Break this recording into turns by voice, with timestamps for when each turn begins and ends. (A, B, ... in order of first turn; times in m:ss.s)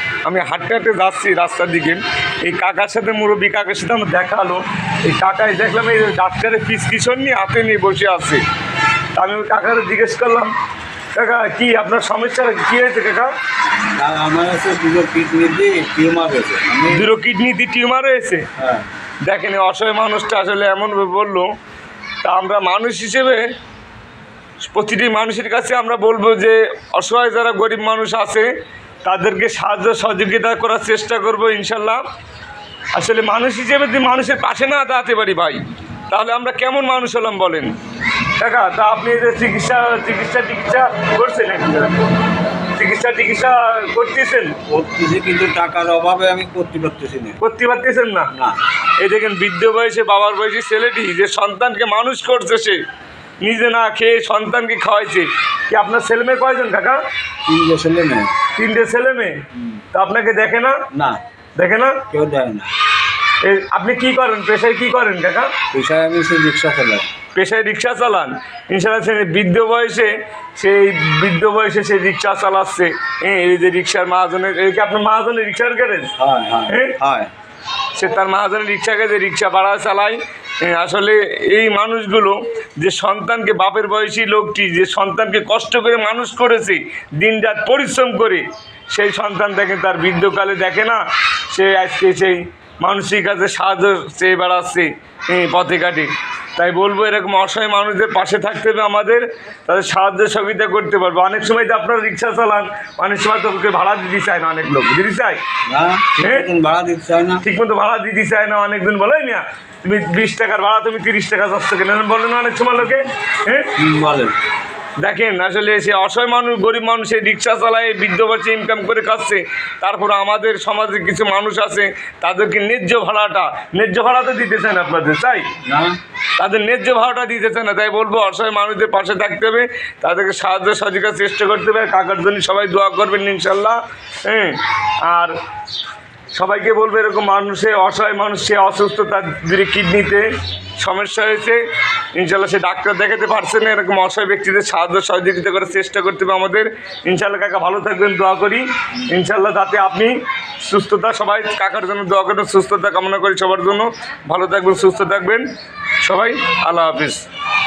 0:00.2-0:08.4 A
0:09.2-0:10.5 A
0:11.1-0:13.3 A
0:14.0-0:17.1 B
0:16.9-0:18.5 A
0:18.6-0:18.9 B
0:19.3-0:21.5 A
0:22.2-0:23.4 A
0:24.6-0:28.5 A
0:29.0-0:32.0 A
0:33.0-0:37.7 A
0:38.4-0:42.2 A
0:42.8-0:44.6 A
0:44.7-0:47.4 B
0:47.4-0:48.3 A
0:48.3-0:48.6 B
0:49.0-0:52.8 A
0:53.4-0:57.0 A
0:57.5-0:58.4 B
0:58.6-1:00.8 A
0:59.6-0:59.8 B
1:00.9-1:01.2 B
1:01.6-1:02.0 A
1:02.1-1:02.7 B
1:03.4-1:05.6 A
1:05.7-1:07.1 B
1:07.4-1:16.1 A
1:16.2-1:17.3 B
1:16.7-1:17.0 A
1:18.0-1:45.4 A
1:45.7-1:47.4 B
1:46.2-1:46.4 A
1:47.4-1:53.7 A
1:53.8-1:54.4 B
1:55.0-2:05.5 A
2:05.6-2:06.0 B
2:06.4-2:15.3 A
2:16.4-2:20.3 A
2:20.8-2:21.6 A
2:22.2-2:35.5 A
2:36.0-2:37.2 A